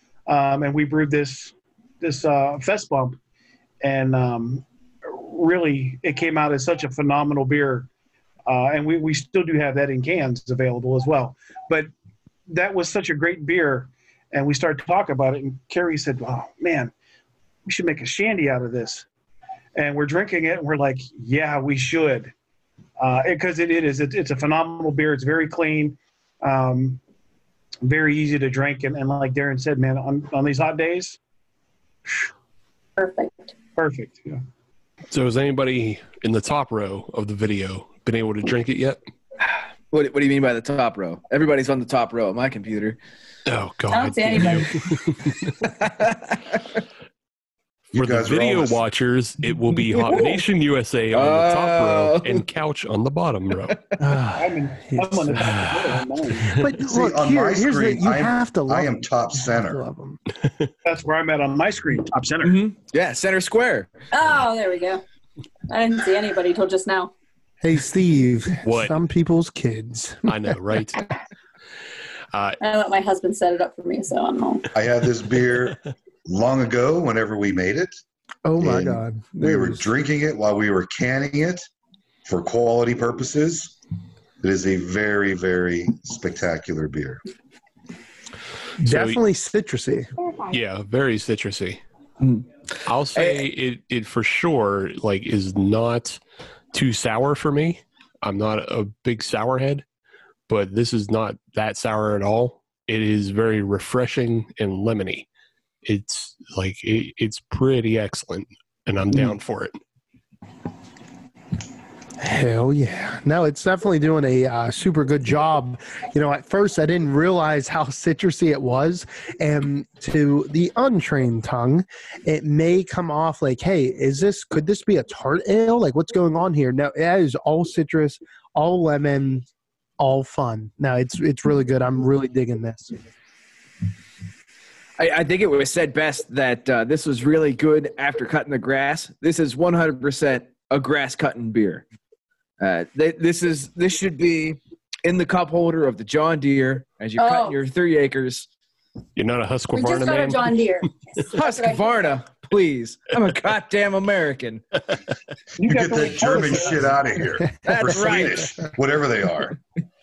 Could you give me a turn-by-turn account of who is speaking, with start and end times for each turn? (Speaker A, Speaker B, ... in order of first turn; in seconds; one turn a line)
Speaker A: 0.3-3.2
Speaker A: 3.8-7.9
Speaker A: 8.5-11.9
Speaker A: 12.5-16.9
Speaker A: 17.6-19.1
Speaker A: 19.7-22.3
Speaker A: 23.0-27.0
Speaker A: 27.8-31.2
Speaker B: 33.0-33.5
Speaker A: 33.8-34.4
Speaker C: 35.1-39.0
Speaker D: 39.9-43.0
Speaker C: 43.5-45.5
Speaker B: 43.9-44.8
Speaker D: 45.6-46.6
Speaker E: 47.9-48.8
Speaker C: 48.0-53.8
Speaker D: 50.0-50.4
Speaker D: 51.1-52.4
Speaker F: 54.0-60.2
Speaker A: 54.4-56.5
Speaker E: 56.8-59.8
Speaker A: 60.8-62.6
Speaker D: 62.4-63.9
Speaker B: 64.1-65.0
Speaker B: 65.7-67.1
Speaker F: 67.6-70.5
Speaker C: 68.6-69.0
Speaker C: 70.2-71.0
Speaker C: 72.3-72.6
Speaker B: 72.6-74.7
Speaker E: 74.7-78.0
Speaker F: 78.4-79.9
Speaker E: 78.6-81.7
Speaker E: 82.2-83.8
Speaker E: 84.4-87.2
Speaker F: 88.8-90.1
Speaker C: 88.8-89.2
Speaker C: 90.5-91.8
Speaker D: 92.2-92.5
Speaker C: 92.8-96.2
Speaker D: 93.1-93.4
Speaker C: 96.7-99.8
Speaker C: 100.5-105.3
Speaker C: 105.8-109.8
Speaker F: 112.2-129.4
Speaker F: 130.0-132.9
Speaker D: 135.0-141.8
Speaker D: 142.6-148.5
Speaker B: 147.2-147.6
Speaker C: 149.2-150.6
Speaker B: 149.7-152.1
Speaker D: 151.3-154.6
Speaker A: 155.6-156.9
Speaker E: 155.6-159.6
Speaker D: 157.6-158.5